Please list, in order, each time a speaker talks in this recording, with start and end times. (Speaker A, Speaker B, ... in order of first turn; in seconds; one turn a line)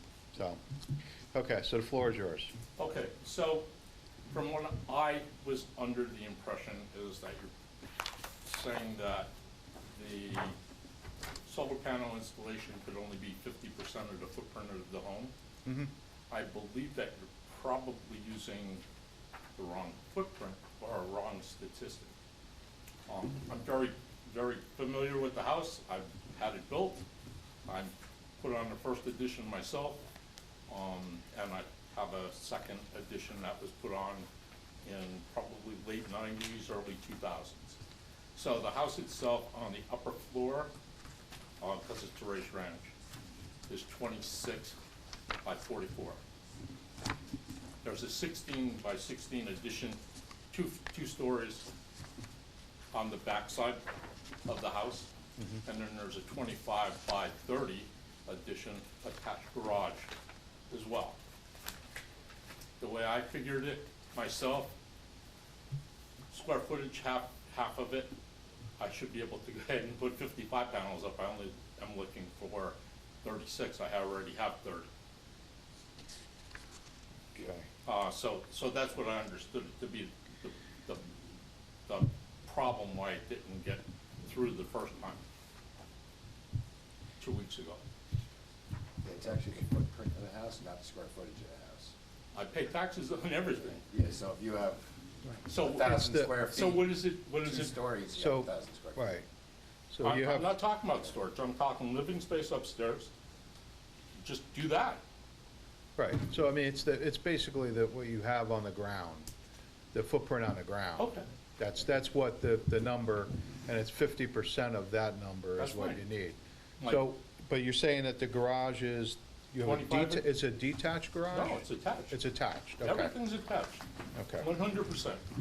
Speaker A: 0.3-0.6
Speaker A: 1.3-2.5
Speaker B: 2.8-3.7
Speaker B: 4.3-7.5
Speaker B: 8.4-9.3
Speaker B: 9.9-10.6
Speaker B: 11.4-15.3
Speaker A: 15.6-15.9
Speaker B: 16.3-18.8
Speaker B: 19.6-22.1
Speaker B: 23.1-27.0
Speaker B: 27.6-30.0
Speaker B: 30.7-34.3
Speaker B: 34.8-37.8
Speaker B: 38.4-40.7
Speaker B: 41.6-42.9
Speaker B: 43.7-44.8
Speaker B: 45.4-46.2
Speaker B: 47.8-50.0
Speaker B: 50.5-51.6
Speaker B: 52.9-53.8
Speaker B: 54.5-55.1
Speaker B: 55.6-60.1
Speaker B: 60.7-61.2
Speaker B: 62.8-64.7
Speaker B: 66.3-68.1
Speaker B: 68.8-74.9
Speaker A: 77.3-77.7
Speaker B: 77.8-81.0
Speaker B: 81.9-85.2
Speaker B: 87.2-87.8
Speaker C: 89.0-91.9
Speaker B: 92.3-93.8
Speaker C: 93.8-94.8
Speaker B: 95.5-97.8
Speaker C: 95.5-99.2
Speaker A: 95.7-96.3
Speaker A: 98.1-99.2
Speaker A: 99.9-100.6
Speaker B: 100.0-103.1
Speaker B: 104.2-105.0
Speaker A: 106.0-109.3
Speaker A: 109.9-123.2
Speaker B: 111.0-111.2
Speaker B: 115.6-116.0
Speaker B: 116.8-117.0
Speaker B: 119.6-120.3
Speaker B: 121.3-122.2
Speaker B: 122.8-123.8
Speaker A: 124.1-124.5
Speaker B: 124.4-125.2